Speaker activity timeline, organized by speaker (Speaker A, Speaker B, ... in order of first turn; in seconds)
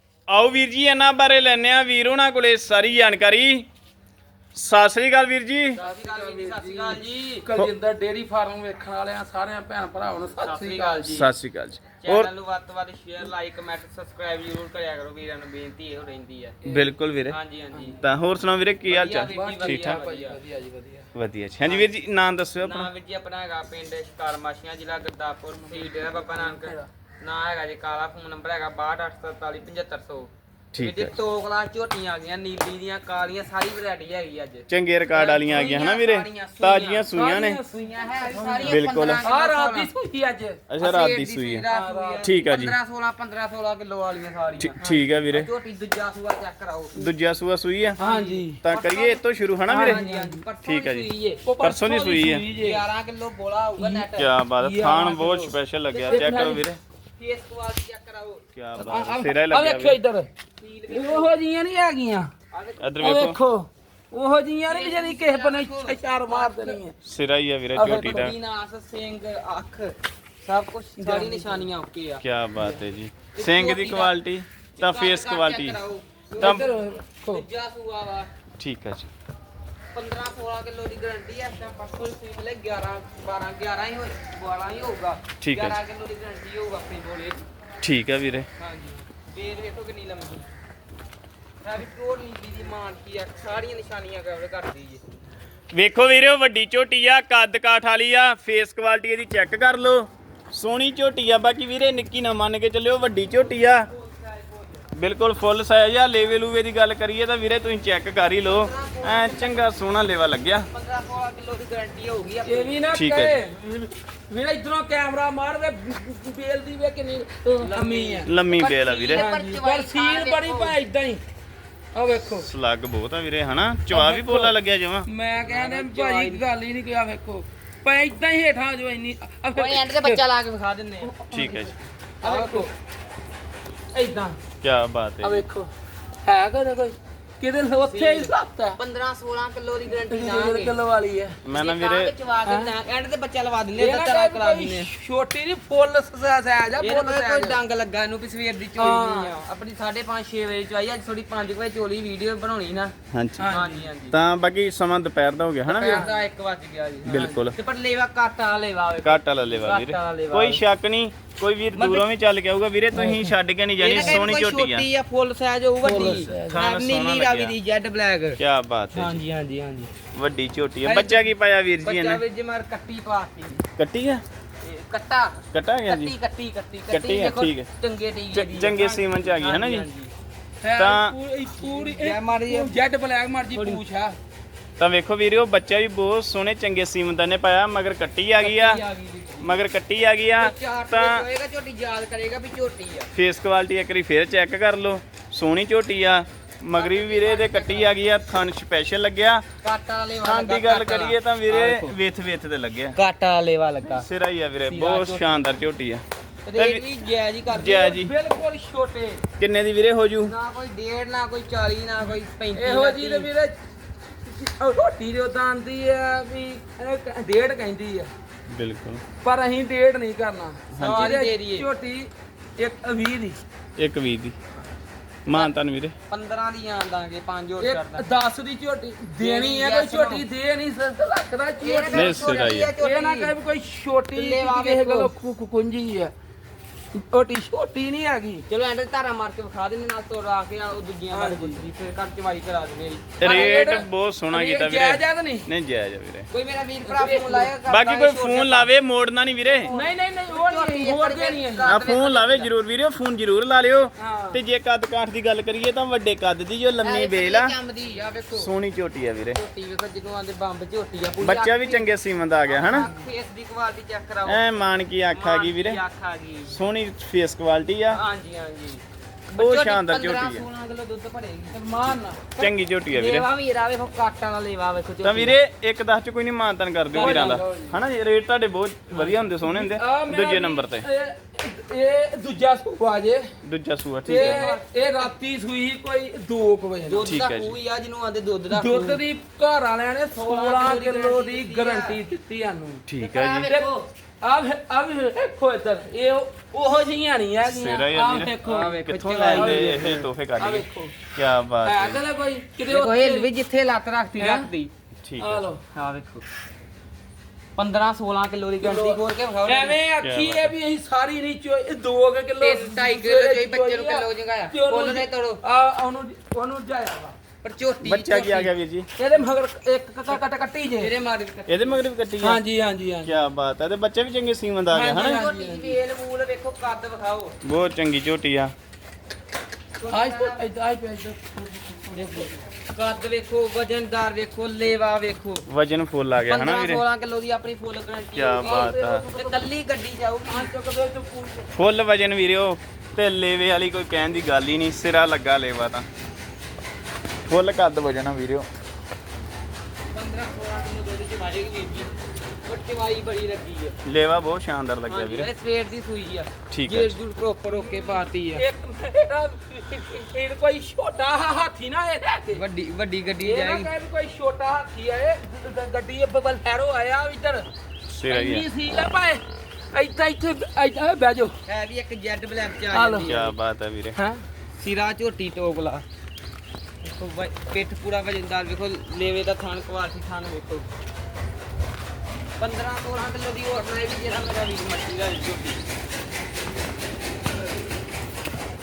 Speaker A: 0.3-3.7, 4.5-5.8, 11.1-12.3, 16.7-17.4, 18.0-20.0, 21.1-22.9, 30.7-31.1, 34.7-37.6, 38.6-39.2, 40.7-41.7, 42.2-42.8, 44.6-45.5, 47.0-48.0, 48.6-50.0, 50.6-51.1, 51.6-52.5, 54.1-56.8, 58.5-60.0, 62.8-63.4, 67.0-68.3, 72.2-75.8, 78.6-79.1, 85.4-85.8, 87.8-88.5, 95.7-103.9, 105.0-110.7, 112.9-113.4, 118.2-119.2, 122.3-125.1, 131.3-131.8, 134.6-135.5, 141.4-142.1, 153.1-153.5, 154.1-156.1, 157.0-157.5, 159.0-164.8, 166.5-167.5, 168.4-169.2, 170.1-172.2, 173.8-174.2, 175.5-176.1, 176.9-177.7, 178.3-179.9, 180.8-181.1, 184.8-188.8, 189.4-191.2, 193.1-199.4, 200.2-203.0, 203.9-206.0, 206.6-206.8, 207.5-208.1, 209.4-210.3, 218.5-219.0, 220.7-221.2, 223.8-224.3, 225.2-225.9, 231.9-232.7, 243.2-246.3, 247.7-249.7, 251.7-257.5, 258.3-259.4, 261.2-262.9, 264.2-265.8, 266.5-268.0, 269.4-270.4, 272.4-273.2, 275.0-280.9, 283.4-284.6, 287.0-287.6, 292.9-293.5, 297.4-302.0, 305.0-305.4, 310.0-310.5, 317.8-318.9, 321.5-322.4, 323.0-325.3, 327.4-328.5, 335.5-336.8, 338.1-339.1, 341.5-345.9, 347.3-348.5, 353.8-355.3, 356.5-356.9, 367.9-368.5, 373.0-374.0
Speaker B: 5.8-11.2, 16.6-16.9, 17.7-18.0, 19.2-21.1, 25.7-26.9, 35.5-35.8, 37.1-40.6, 41.7-42.3, 48.0-48.6, 49.7-50.4, 51.5-52.8, 53.8-54.1, 54.6-56.6, 58.8-60.3, 60.9-62.3, 63.0-67.0, 67.8-68.3, 71.0-71.7, 76.4-77.5, 112.5-118.3, 119.1-121.2, 121.9-122.5, 123.9-130.2, 131.1-132.7, 135.2-135.7, 136.2-138.8, 140.1-141.4, 142.5-142.7, 143.8-147.6, 148.8-149.3, 153.4-153.9, 155.8-156.2, 157.1-157.5, 162.9-163.3, 164.0-164.3, 165.8-166.7, 180.6-184.2, 207.7-209.2, 212.5-213.5, 214.2-218.1, 219.2-223.4, 227.6-232.3, 232.8-236.1, 236.9-238.4, 241.1-241.6, 243.2-245.5, 246.8-247.5, 249.7-251.8, 254.0-254.4, 262.7-263.1, 271.5-272.3, 276.9-277.8, 279.3-283.3, 284.1-287.1, 288.5-292.9, 293.5-300.9, 301.6-303.3, 304.2-304.5, 305.2-305.6, 308.6-317.2, 318.9-320.9, 322.2-323.3, 324.7-325.8, 329.9-332.4, 338.4-339.5, 340.3-341.5, 357.5-362.4, 363.2-367.5, 368.1-371.4, 372.7-373.2, 373.9-374.3
Speaker C: 5.8-7.5, 10.4-11.3, 12.0-16.6, 17.3-18.0, 18.9-20.4, 21.6-21.9, 22.6-37.1, 37.7-39.9, 40.8-44.8, 45.3-47.0, 48.0-51.5, 52.5-54.3, 56.1-56.5, 57.2-58.5, 60.6-61.3, 62.5-63.2, 64.7-66.8, 67.9-72.2, 73.3-74.1, 74.8-78.3, 79.9-87.4, 88.6-90.5, 91.6-95.0, 104.1-104.8, 108.4-109.8, 110.7-112.8, 117.6-120.8, 125.4-126.4, 129.6-131.5, 132.2-132.7, 133.9-134.3, 137.8-140.8, 141.5-144.9, 146.8-152.9, 153.5-154.2, 155.7-160.6, 161.7-162.1, 163.8-168.4, 168.9-169.9, 170.8-173.6, 174.6-180.1, 181.6-182.7, 183.5-183.8, 188.4-189.6, 190.4-193.1, 196.8-197.9, 199.6-201.9, 202.9-204.1, 204.7-205.4, 206.5-207.8, 210.2-213.3, 220.8-221.7, 226.1-228.1, 229.2-230.2, 231.6-233.3, 234.1-235.1, 238.5-243.7, 246.3-248.7, 249.4-252.5, 256.8-258.5, 259.3-261.9, 262.5-264.6, 265.1-266.6, 267.9-271.6, 272.3-275.4, 276.9-277.4, 284.1-285.1, 286.9-289.0, 290.1-292.0, 293.0-293.9, 298.1-300.0, 302.7-304.7, 305.7-306.2, 307.6-309.8, 312.4-315.4, 317.4-318.5, 320.8-321.8, 324.9-327.4, 329.8-330.4, 332.7-335.4, 336.2-340.5, 349.9-351.9, 352.4-353.8, 354.9-358.4, 362.3-363.7, 371.4-373.3, 374.6-375.8, 376.8-380.7, 382.4-385.6